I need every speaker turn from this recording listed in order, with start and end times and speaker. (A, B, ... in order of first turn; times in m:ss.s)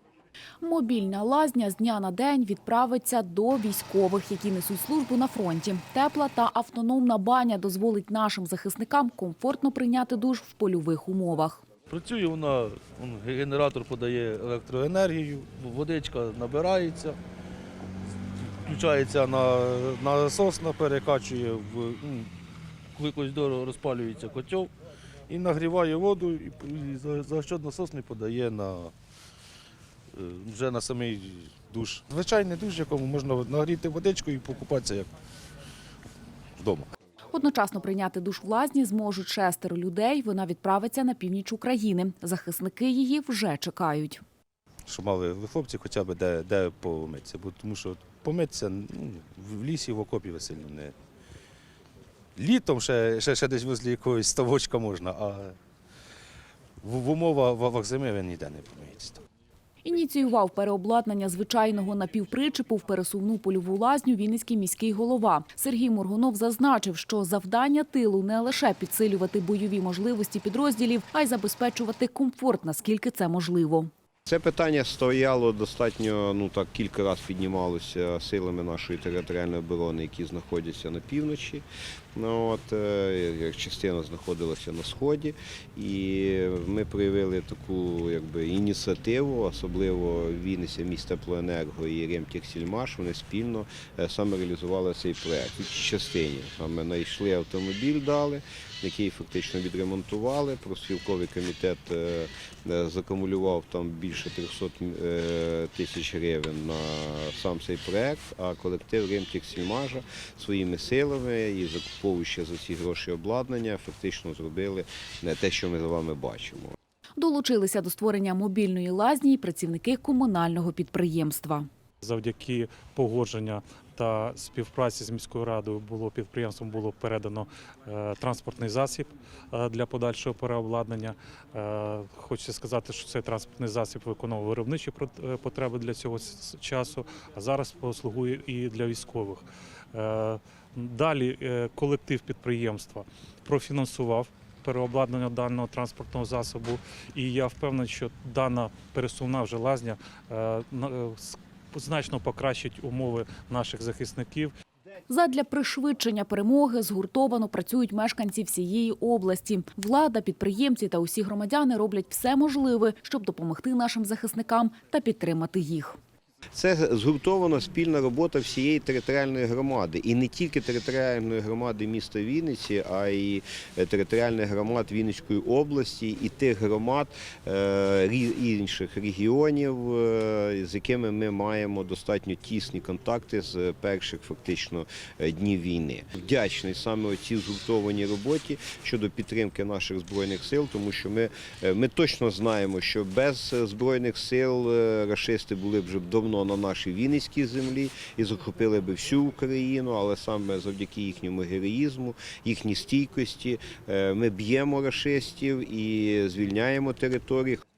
0:00.6-0:11.6 A
0:11.9-0:17.2 B
0:18.4-0:22.3 B
0:23.0-0:24.7 B
0:25.3-0:28.9 B
0:30.1-0:35.1 B
0:36.6-0:36.9 B
0:37.3-0:44.2 A
0:44.9-0:51.0 B
0:52.4-0:55.6 B
0:56.8-0:59.2 B
0:59.8-1:13.9 A
1:14.3-1:56.8 C
1:57.2-2:01.7 A
2:02.0-2:34.5 D
2:35.1-2:46.0 A
2:46.5-3:27.6 C